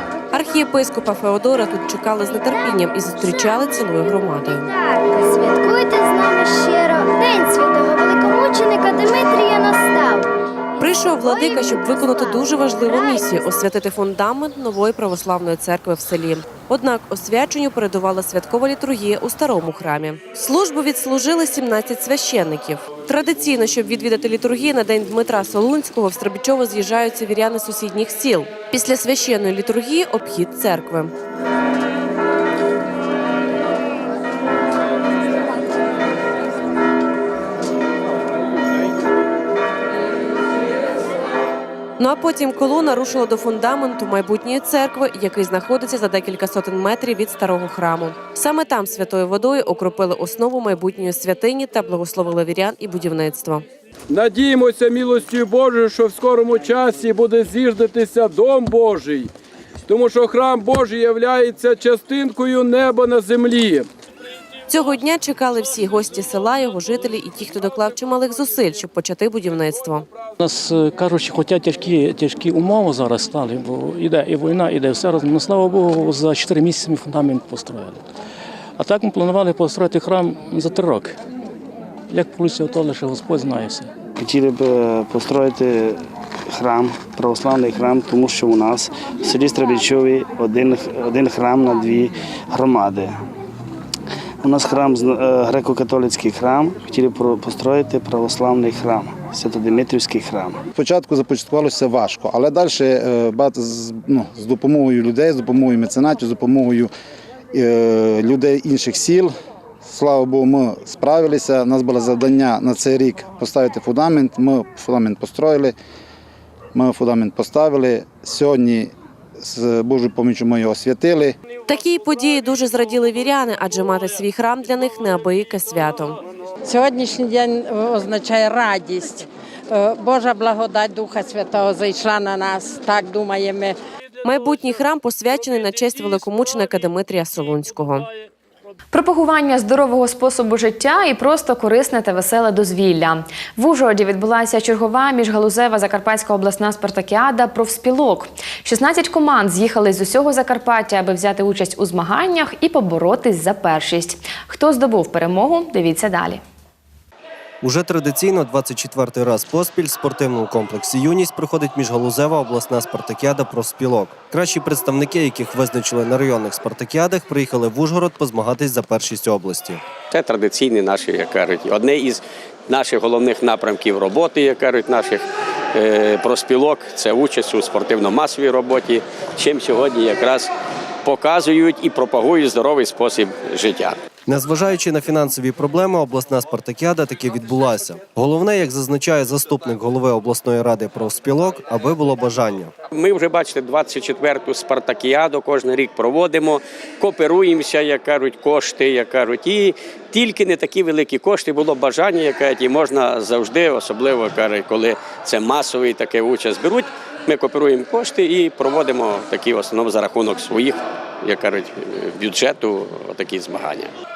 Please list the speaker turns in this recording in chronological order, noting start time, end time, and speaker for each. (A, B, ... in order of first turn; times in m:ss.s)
0:00.3-0:04.7 A
0:03.2-0:13.7 B
0:10.8-0:31.1 A
0:42.0-0:53.7 A
0:54.1-0:59.3 C
0:59.9-1:03.9 C
1:04.7-1:10.1 A
1:10.4-1:18.0 D
1:18.8-1:21.2 D
1:22.1-1:23.9 D
1:24.2-1:33.2 E
1:34.4-1:40.6 E
1:40.8-1:46.9 F
1:47.5-1:55.8 F
1:56.7-2:01.4 F
2:01.7-2:06.2 A
2:06.6-2:13.8 G
2:14.2-2:18.1 A
2:18.9-2:36.4 H
2:37.6-2:49.8 I
2:50.1-3:00.5 J
3:01.0-3:04.0 J
3:04.3-3:12.7 I
3:12.9-3:33.9 J